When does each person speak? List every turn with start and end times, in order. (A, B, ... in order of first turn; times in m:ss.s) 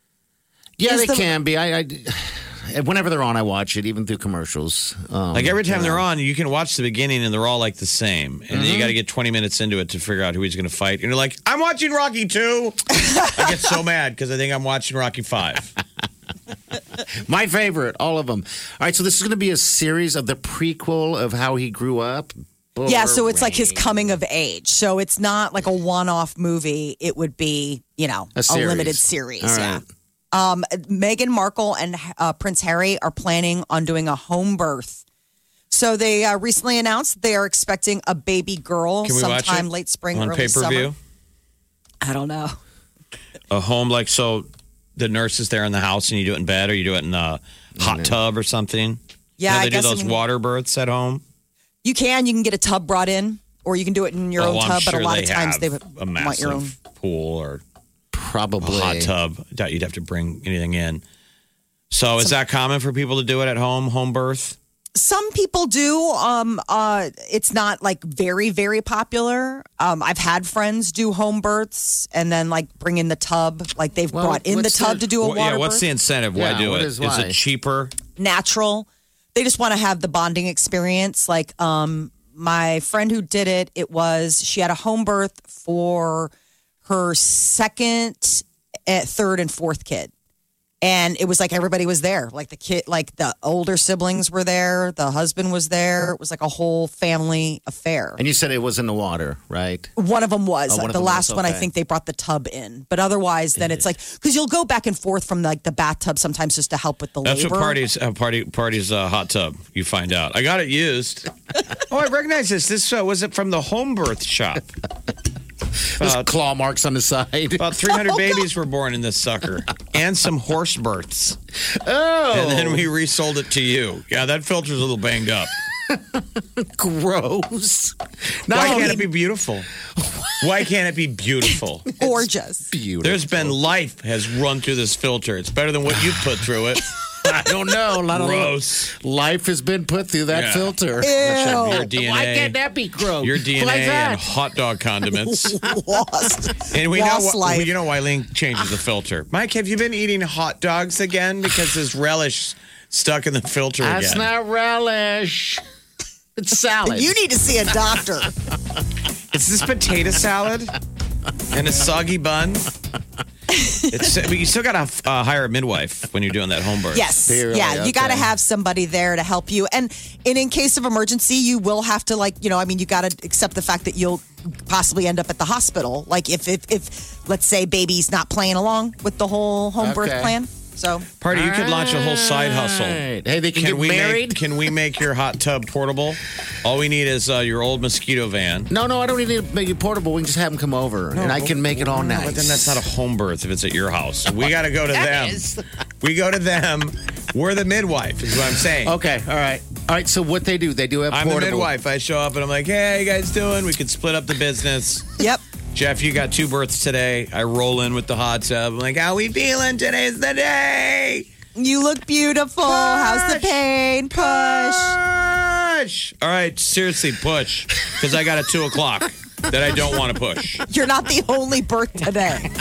0:00.8-0:06.0 A
0:00.9-0:01.3 B
0:05.3-0:15.7 C
0:08.5-0:09.0 A
0:17.2-0:24.2 A
0:22.9-0:29.8 B
0:28.4-0:29.8 A
0:30.3-0:35.0 B
0:35.7-0:40.9 B
0:39.0-0:41.0 C
0:42.0-0:42.6 B
0:43.5-0:51.2 C
0:47.8-0:48.2 A
0:49.4-0:50.2 B
0:51.8-0:56.7 B
0:54.4-0:57.6 C
0:58.1-0:59.1 A
0:58.6-1:01.0 C
1:01.9-1:04.6 C
1:05.0-1:15.9 B
1:14.1-1:15.1 A
1:15.2-1:17.9 C
1:16.3-1:17.4 A
1:18.2-1:26.3 B
1:26.9-1:30.1 B
1:30.8-1:38.2 B
1:38.2-1:39.9 A
1:40.0-1:47.8 B
1:40.7-1:41.7 A
1:47.2-1:54.7 C
1:55.9-1:58.1 A
1:56.0-1:56.3 C
1:57.6-2:01.4 C
2:01.7-2:02.9 A
2:02.3-2:05.6 C
2:05.9-2:09.0 A
2:08.5-2:09.7 C
2:10.0-2:10.4 A
2:10.4-2:11.9 C
2:12.0-2:12.7 B
2:12.0-2:13.6 A
2:13.0-2:16.9 C
2:15.9-2:16.2 A
2:17.2-2:24.3 A
2:18.1-2:18.9 C
2:20.3-2:22.6 C
2:21.0-2:21.9 B
2:23.2-2:25.6 C
2:25.6-2:27.7 B
2:26.7-2:34.3 C
2:33.8-2:35.6 A
2:36.4-2:37.2 A
2:36.8-2:38.3 B
2:39.3-2:40.8 C
2:41.5-2:42.7 C
2:43.5-2:44.0 B
2:43.9-2:47.1 C
2:46.9-3:01.1 B
2:47.2-2:48.3 A
2:59.8-3:00.4 A
3:01.2-3:08.7 C
3:01.3-3:04.6 A
3:08.7-3:12.8 A
3:11.2-3:15.4 C
3:14.9-3:15.7 A
3:16.0-3:19.0 C
3:18.8-3:21.7 A
3:21.1-3:25.1 C
3:25.7-3:31.3 C
3:31.6-3:35.0 B
3:32.7-3:40.7 C
3:40.7-3:42.5 B